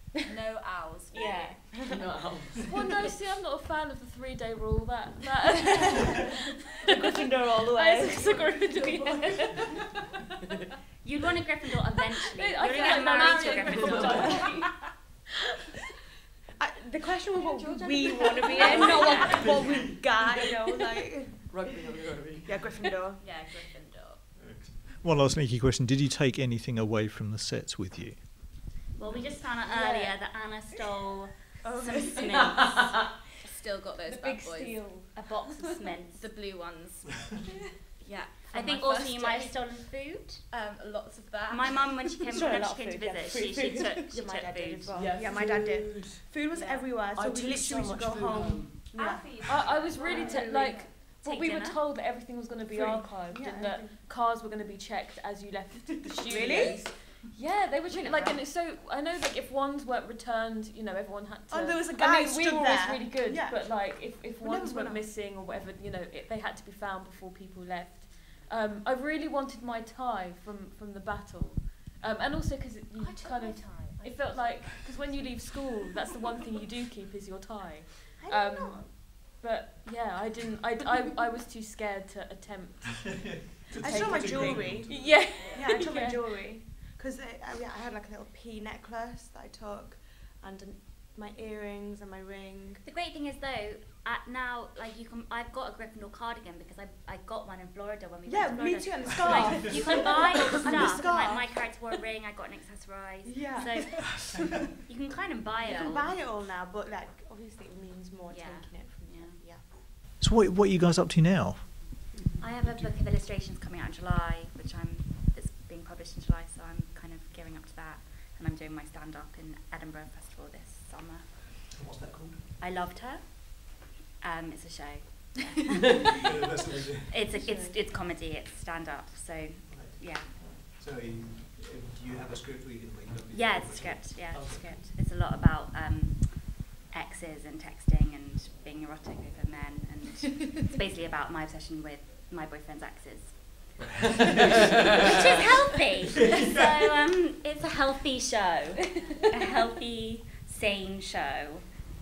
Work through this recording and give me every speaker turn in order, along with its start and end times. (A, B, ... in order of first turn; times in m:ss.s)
0:00.3-0:01.6 A
0:01.1-0:01.6 B
0:01.3-0:02.0 C
0:01.9-0:02.7 D
0:02.6-0:09.7 E
0:06.9-0:09.0 C
0:11.0-0:14.4 B
0:12.3-0:14.7 E
0:12.6-0:14.7 A
0:13.7-0:14.4 D
0:16.6-0:21.9 C
0:17.4-0:19.5 A
0:18.6-0:19.0 D
0:18.6-0:19.5 B
0:21.5-0:22.6 D
0:22.4-0:23.2 C
0:23.2-0:24.2 A
0:24.4-0:28.4 F
0:28.9-0:33.0 B
0:29.7-0:30.1 A
0:31.6-0:32.6 C
0:33.4-0:34.9 A
0:34.0-0:36.0 E
0:35.1-0:36.2 B
0:36.2-0:37.4 A
0:38.0-0:39.9 A
0:38.5-0:40.4 B
0:40.5-0:42.4 A
0:41.5-0:44.9 B
0:42.3-0:50.8 C
0:44.9-0:46.3 D
0:46.5-0:46.9 A
0:47.0-0:49.0 D
0:49.0-0:50.9 A
0:49.4-1:26.6 E
0:51.0-0:51.8 B
0:52.7-0:54.0 C
0:55.9-0:56.9 C
0:56.0-0:57.2 A
0:57.8-0:58.4 A
1:01.5-1:03.7 C
1:04.4-1:05.1 C
1:13.0-1:15.3 A
1:18.2-1:19.0 C
1:23.6-1:25.6 F
1:23.8-1:32.8 C
1:32.8-1:44.2 B
1:38.2-1:41.7 C
1:43.2-1:44.2 C
1:44.8-1:46.1 B
1:45.6-1:49.6 C
1:48.3-1:49.4 B
1:50.2-1:52.0 F
1:52.4-2:01.8 B
1:52.6-1:52.9 F
2:01.7-2:02.5 F
2:02.6-2:06.2 B
2:06.2-2:07.2 F
2:07.0-2:10.3 B
2:07.3-2:07.8 E
2:09.7-2:14.8 F
2:13.3-2:23.7 B
2:23.8-2:25.0 F
2:25.0-2:31.6 B
2:26.2-2:26.6 F